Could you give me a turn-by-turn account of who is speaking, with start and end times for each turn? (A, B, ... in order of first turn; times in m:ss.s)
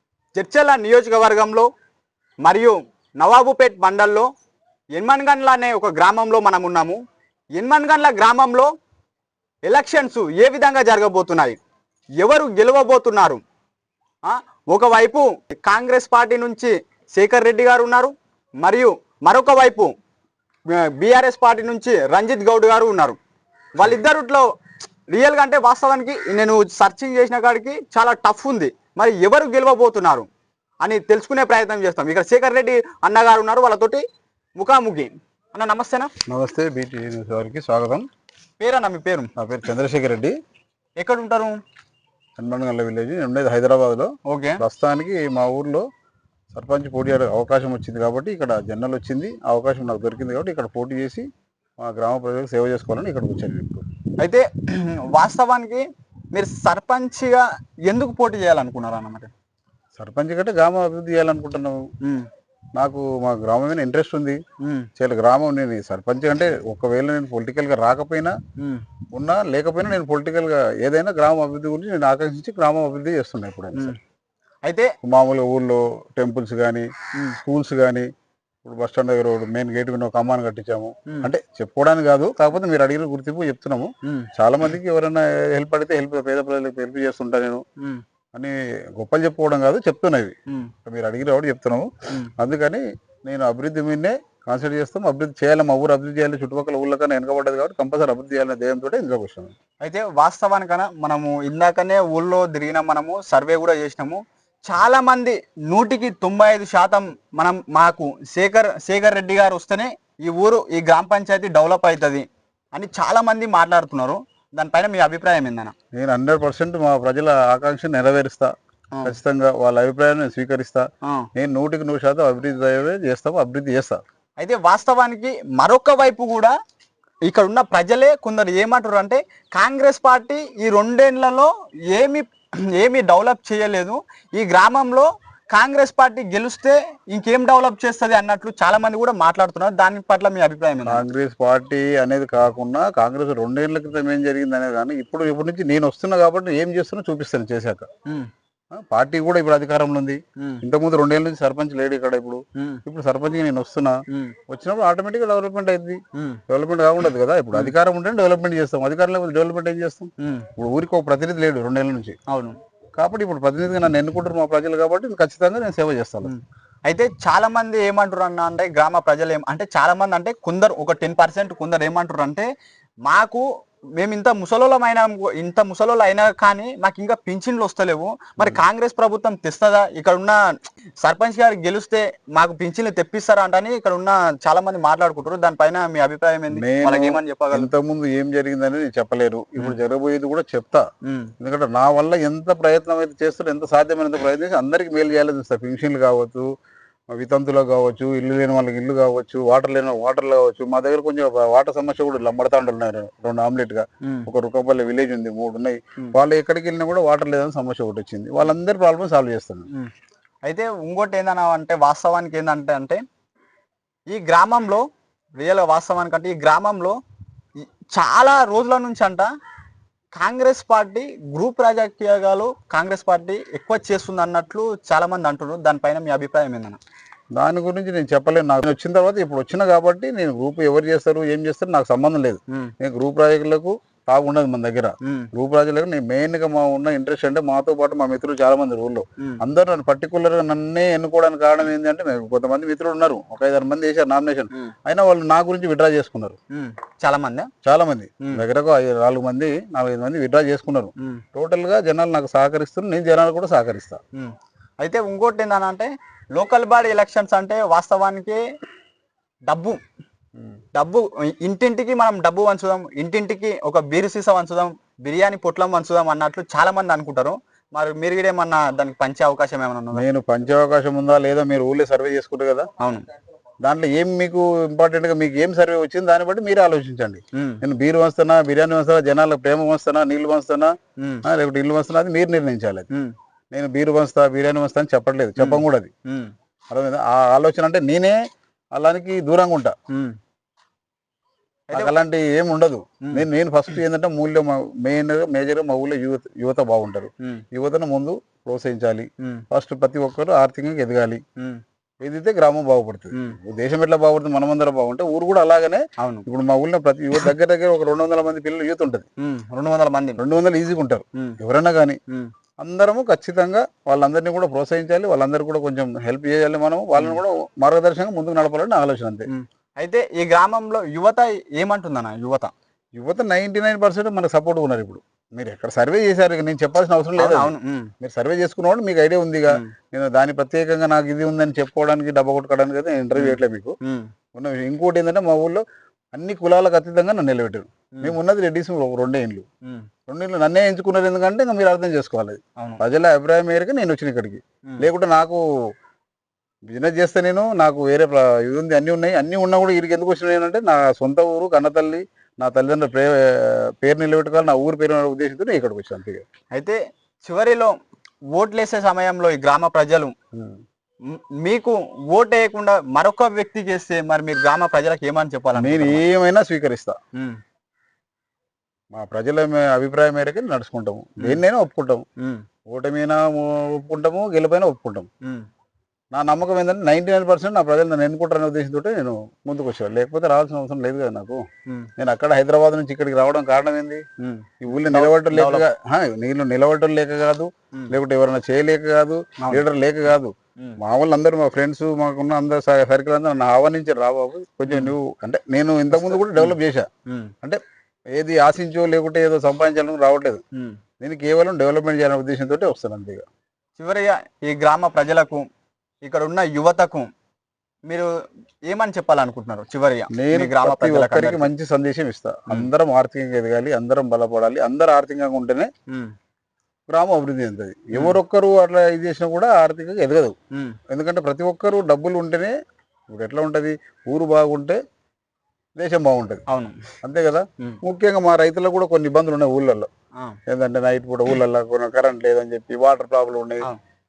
0:00.3-0:01.7 A
0:02.4-0:04.3 A
0:04.9-0:07.0 A
0:07.6-0:08.7 A
0:09.6-0:11.6 A
0:12.2-0:13.4 A
0:14.2-0:19.9 A
0:20.7-0:23.2 A
0:23.8-0:24.5 A
0:25.1-0:30.3 A
0:30.8-0:34.0 A
0:34.6-0:36.1 A
0:36.3-0:38.0 B
0:38.6-0:39.3 A
0:39.4-0:40.4 B
0:41.0-0:41.6 A
0:42.4-0:45.8 B
0:44.2-0:44.6 A
0:46.5-0:51.3 B
0:51.8-0:53.8 B
0:54.2-0:59.3 A
1:00.0-1:01.9 B
1:02.0-1:02.3 A
1:02.7-1:04.4 B
1:04.6-1:04.9 A
1:05.0-1:08.4 B
1:08.6-1:08.8 A
1:09.1-1:14.0 B
1:14.6-1:14.9 A
1:15.0-1:18.1 B
1:18.6-1:27.6 B
1:24.0-1:24.3 A
1:27.8-1:28.0 A
1:28.3-1:39.5 B
1:30.5-1:30.7 A
1:39.8-1:55.7 A
1:55.9-1:58.5 B
1:59.0-2:04.0 B
2:01.0-2:01.3 A
2:04.4-2:06.5 A
2:07.2-2:21.0 A
2:20.8-2:27.9 B
2:28.7-2:42.2 B
2:30.4-2:30.6 A
2:32.5-2:32.8 A
2:34.1-2:34.4 A
2:36.1-2:36.4 A
2:40.2-2:40.5 A
2:42.3-2:42.6 A
2:43.0-2:46.3 B
2:46.2-2:52.5 A
2:53.0-3:00.4 A
3:01.0-3:07.7 A
3:06.5-3:10.9 B
3:11.0-3:11.3 A
3:11.4-3:16.5 B
3:17.1-3:29.7 B
3:24.0-3:24.3 A
3:30.4-3:33.0 A
3:34.1-3:34.8 A
3:35.4-3:37.0 A
3:37.6-3:39.3 A
3:40.1-3:46.8 A
3:47.3-4:06.4 B
3:55.0-3:55.3 A
4:06.5-4:07.5 A
4:07.6-4:14.0 B
4:14.1-4:18.4 A
4:19.5-4:19.8 A
4:20.7-4:30.0 A
4:29.9-4:32.7 B
4:32.8-4:33.1 A
4:33.6-4:40.7 B
4:37.3-4:37.6 A
4:41.0-4:41.2 A
4:41.2-4:42.9 B
4:43.5-4:45.9 B
4:45.4-4:46.3 A
4:46.7-4:48.2 B
4:48.7-4:49.8 B
4:49.9-4:50.2 A
4:51.7-4:51.9 A
4:51.7-5:01.2 B
4:59.2-4:59.4 A
5:02.0-5:09.1 B
5:03.1-5:03.4 A
5:06.0-5:06.2 A
5:09.2-5:10.2 A
5:10.2-5:12.0 B
5:12.6-5:19.3 B
5:17.0-5:17.2 A
5:19.3-5:22.5 A
5:23.0-5:33.8 B
5:27.2-5:27.9 A
5:33.2-5:34.1 A
5:34.3-5:39.4 B
5:40.1-5:45.4 B
5:42.6-5:42.8 A
5:46.7-5:56.2 B
5:56.5-5:57.7 A
5:58.3-6:00.1 A
6:00.3-6:00.6 B
6:01.0-6:06.0 A
6:05.6-6:07.0 B
6:08.9-6:12.0 B
6:12.2-6:12.4 A
6:12.7-6:15.1 B
6:16.1-6:21.4 B
6:22.0-6:24.0 B
6:24.2-6:25.6 A
6:24.6-6:36.9 B
6:34.7-6:34.9 A
6:35.9-6:36.6 A
6:37.1-6:37.3 A
6:38.1-6:40.4 B
6:40.5-6:40.8 A
6:41.0-6:43.2 B
6:43.8-6:45.5 A
6:46.0-6:47.1 A
6:48.7-6:51.5 A
6:50.1-6:55.7 B
6:55.9-6:56.1 A
6:56.9-7:00.3 B
6:57.9-6:58.2 A
7:00.5-7:00.8 A
7:00.9-7:02.5 B
7:03.1-7:04.8 B
7:05.8-7:06.4 B
7:06.5-7:06.9 A
7:07.0-7:09.9 B
7:10.5-7:13.7 B